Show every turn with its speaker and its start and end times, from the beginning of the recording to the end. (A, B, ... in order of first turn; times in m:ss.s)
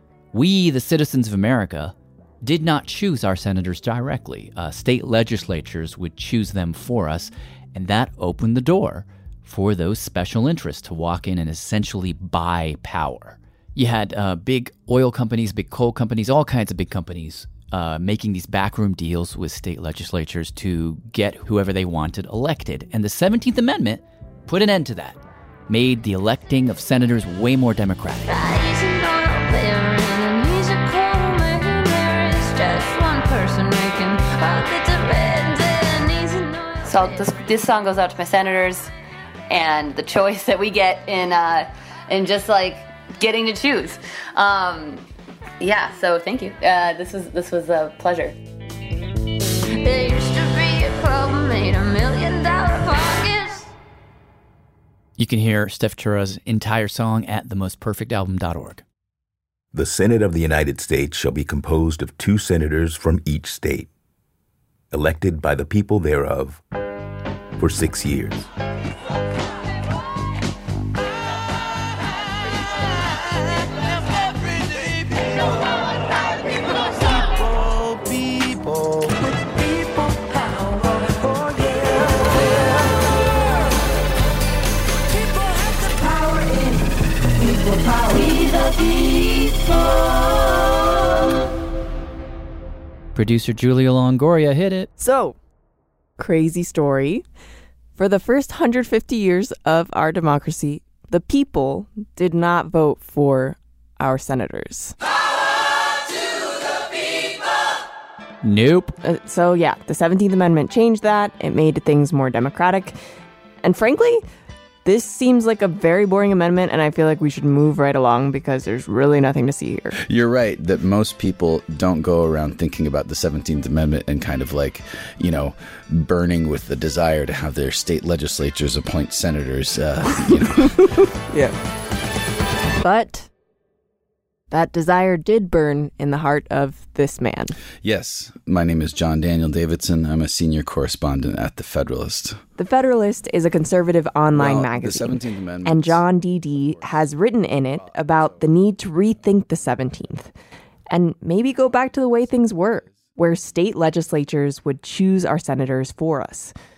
0:00.3-0:25.2 A
0:25.7-0:28.3 A
0:28.2-0:37.2 B
0:36.9-0:38.9 C
0:39.5-0:45.0 C
0:45.6-0:48.4 C
0:49.8-0:53.7 B
0:55.2-0:58.8 A
0:59.7-1:03.9 D
1:04.9-1:06.6 D
1:07.6-1:08.5 D
1:33.2-1:34.9 A
1:35.0-1:35.4 E
1:36.2-1:37.2 E
1:38.0-1:45.0 E
1:48.4-1:48.9 A
1:49.0-1:53.0 E
1:53.6-1:54.2 E
1:54.8-2:00.0 E
2:00.1-2:10.9 F
2:11.3-2:11.6 E
2:12.8-2:13.3 E
2:14.5-2:17.5 E
2:17.8-2:22.4 F
2:22.6-2:30.3 E
2:24.3-2:26.0 F
2:30.9-2:36.5 E